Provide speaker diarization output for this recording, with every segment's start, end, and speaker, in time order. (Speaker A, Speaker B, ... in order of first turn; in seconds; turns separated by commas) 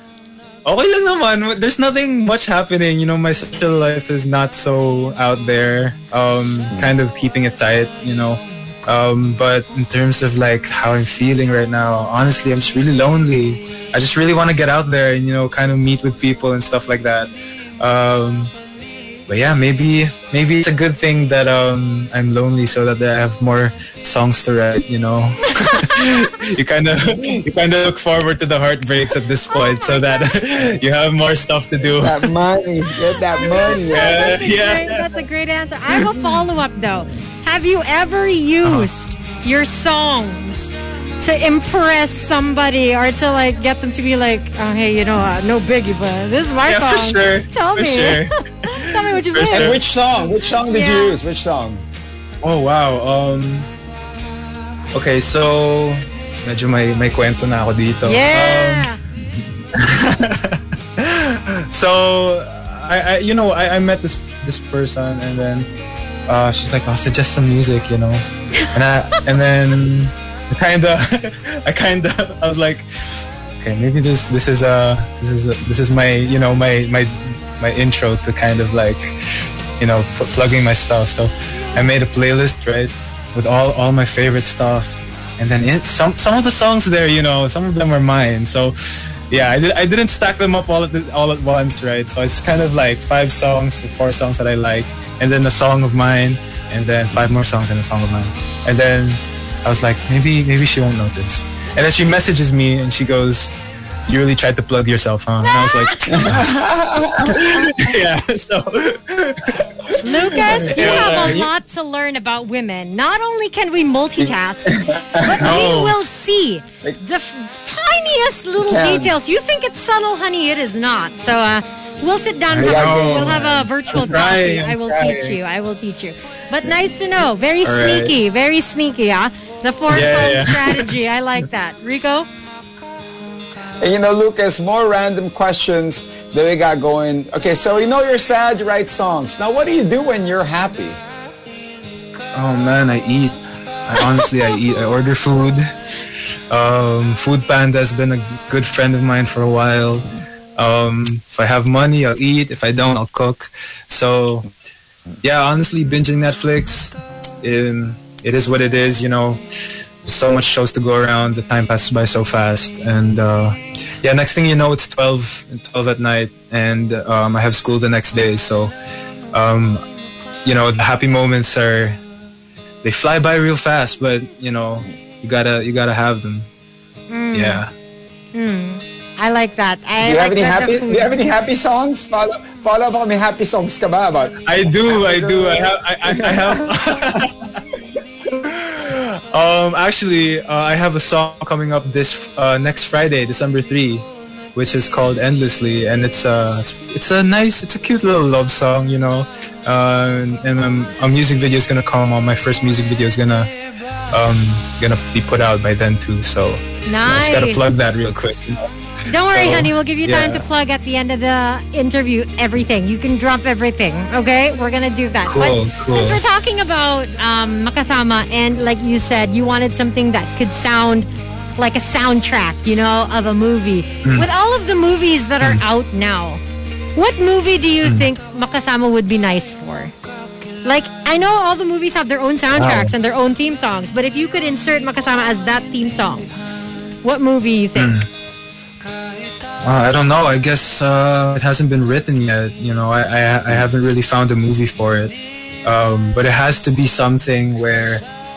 Speaker A: 0.7-18.5, Speaker A: 19.3-32.3, Speaker B: 25.6-26.0, Speaker B: 29.5-30.3, Speaker C: 31.9-34.4, Speaker B: 33.4-49.7, Speaker A: 33.8-35.2, Speaker A: 38.6-38.9, Speaker A: 46.6-49.8, Speaker C: 49.5-51.8, Speaker B: 50.7-51.2, Speaker A: 52.4-53.7, Speaker A: 54.9-58.9, Speaker B: 58.0-59.0, Speaker A: 59.7-65.7, Speaker A: 66.3-79.2, Speaker A: 79.8-103.5, Speaker A: 104.1-111.5, Speaker B: 105.4-106.4, Speaker C: 106.1-107.7, Speaker B: 110.0-132.3, Speaker C: 110.3-111.5, Speaker C: 114.2-115.6, Speaker A: 115.4-116.0, Speaker C: 118.6-119.2, Speaker A: 122.5-125.4, Speaker C: 122.6-123.5, Speaker A: 127.6-128.2, Speaker A: 129.9-130.9, Speaker C: 133.8-141.0, Speaker A: 142.3-145.7, Speaker A: 146.5-150.1, Speaker A: 150.6-154.5, Speaker A: 155.2-159.4, Speaker A: 160.0-168.7, Speaker A: 169.3-169.8, Speaker A: 170.4-172.0, Speaker A: 172.8-176.5, Speaker B: 177.1-177.6, Speaker A: 177.3-177.7, Speaker B: 178.3-181.2, Speaker C: 180.0-187.2, Speaker A: 184.4-187.6, Speaker A: 188.3-203.5, Speaker A: 204.1-210.4, Speaker B: 206.9-207.7, Speaker B: 209.1-226.4, Speaker A: 215.2-216.2, Speaker B: 226.9-229.9, Speaker B: 230.6-236.3, Speaker A: 232.5-232.9, Speaker B: 237.0-237.9, Speaker A: 237.8-238.1, Speaker A: 239.6-245.1, Speaker A: 245.7-248.0